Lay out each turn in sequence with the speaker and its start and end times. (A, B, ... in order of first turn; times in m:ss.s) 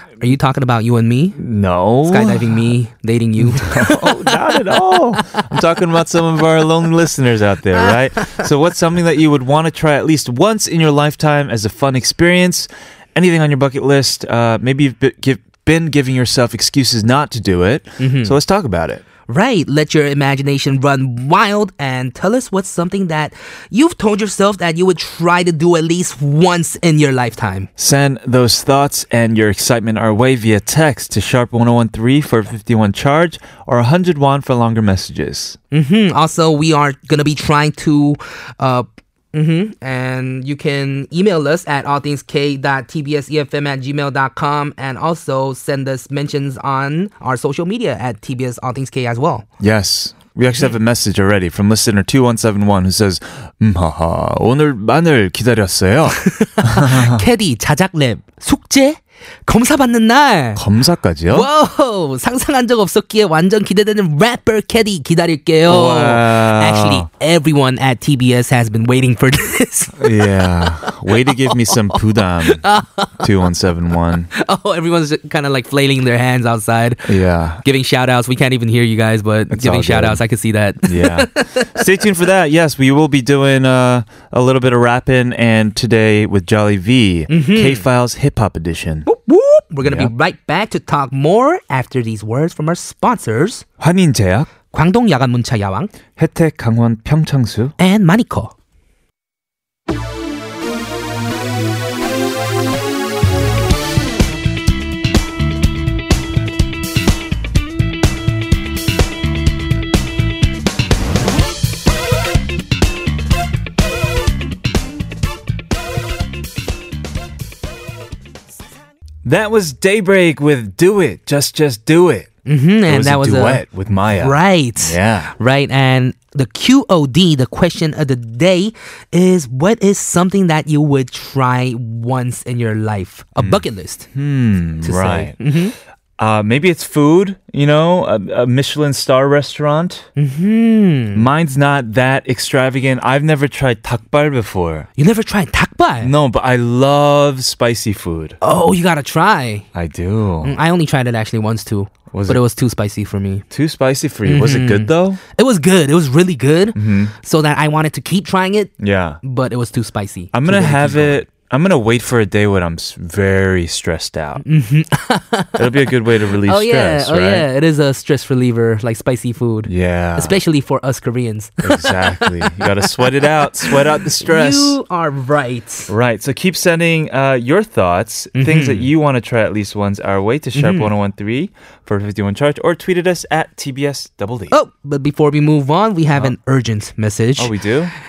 0:00.2-0:01.4 A
0:01.4-0:02.6 B
0:02.0-0:04.3 A
0:03.4-0:19.0 B
0:18.0-0:18.3 A
0:19.3-0:27.7 A
0:27.8-0:35.6 B
0:35.7-0:49.4 A
0:49.6-0:57.2 B
0:56.2-1:00.6 A
1:00.5-1:01.5 B
1:01.3-1:13.2 A
1:05.6-1:07.1 B
1:10.0-1:12.6 B
1:13.2-1:14.3 B
1:14.3-1:21.8 A
1:17.0-1:17.6 B
1:19.5-1:20.2 B
1:20.8-1:29.1 B
1:27.3-1:27.8 A
1:29.0-1:33.6 A
1:29.8-1:30.1 B
1:33.8-1:34.5 B
1:34.7-1:35.9 A
1:36.2-1:37.7 B
1:37.8-1:38.5 A
1:59.2-2:02.3 B
2:02.4-2:03.6 A
2:02.8-2:05.3 B
2:04.2-2:14.1 A
2:13.4-2:15.4 B
2:14.8-2:15.7 A
2:16.2-2:20.1 B
2:20.2-2:21.2 A
2:21.1-2:24.9 B
2:25.0-2:26.1 A
2:26.0-2:28.4 B
2:28.4-2:29.7 A
2:29.7-2:30.5 B
2:30.4-2:33.4 A
2:32.1-2:32.4 B
2:33.5-2:35.2 B
2:34.2-2:41.2 A
2:36.7-2:37.1 B
2:38.8-2:39.2 B
2:40.3-2:44.4 B
2:44.4-2:45.8 A
2:45.6-2:47.4 B
2:46.4-2:55.9 A
2:49.6-2:50.4 B
2:51.6-2:54.8 B
2:55.9-3:04.6 B
2:58.3-2:58.9 A
3:00.5-3:00.9 A
3:04.5-3:07.5 A
3:07.4-3:07.9 B